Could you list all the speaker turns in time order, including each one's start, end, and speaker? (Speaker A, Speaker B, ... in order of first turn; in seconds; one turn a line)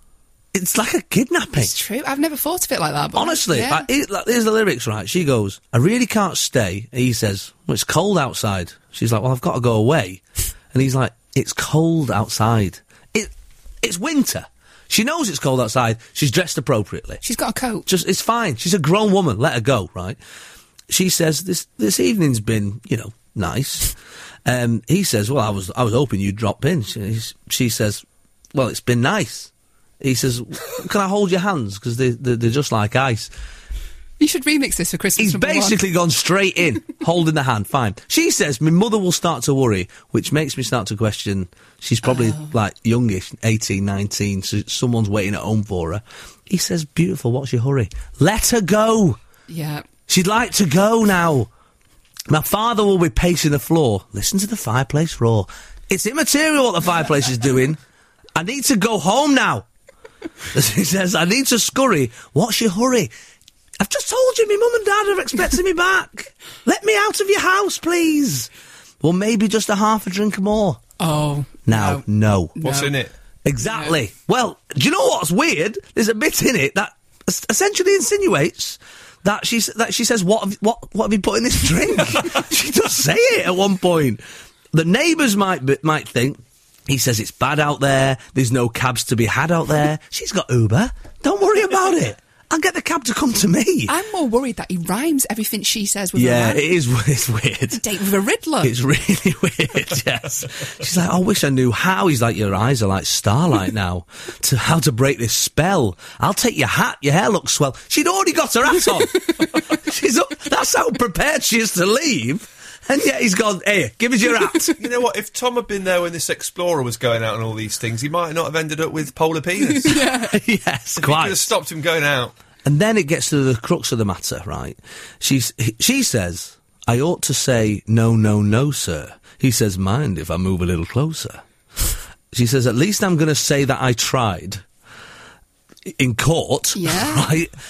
Speaker A: 0.5-1.8
Speaker B: 1.5-3.9
Speaker A: 3.1-17.2
Speaker B: 17.2-17.9
Speaker A: 17.9-20.2
Speaker A: 20.9-33.3
Speaker B: 34.2-35.8
Speaker A: 35.2-49.2
Speaker B: 42.0-42.5
Speaker B: 49.5-49.9
Speaker A: 50.1-51.5
Speaker A: 52.3-57.8
Speaker A: 58.4-59.7
Speaker A: 60.5-63.1
Speaker A: 63.8-68.5
Speaker A: 69.0-70.8
Speaker B: 71.0-72.0
Speaker A: 71.7-72.6
Speaker B: 72.6-72.9
Speaker C: 72.6-73.1
Speaker A: 73.5-93.9
Speaker B: 93.9-96.6
Speaker A: 96.2-97.8
Speaker B: 97.7-98.7
Speaker A: 98.6-114.8
Speaker C: 114.8-120.0
Speaker B: 119.8-120.3
Speaker A: 120.3-121.5
Speaker C: 121.0-122.3
Speaker A: 122.7-131.4
Speaker A: 132.3-134.6
Speaker A: 135.8-137.5
Speaker B: 136.8-137.3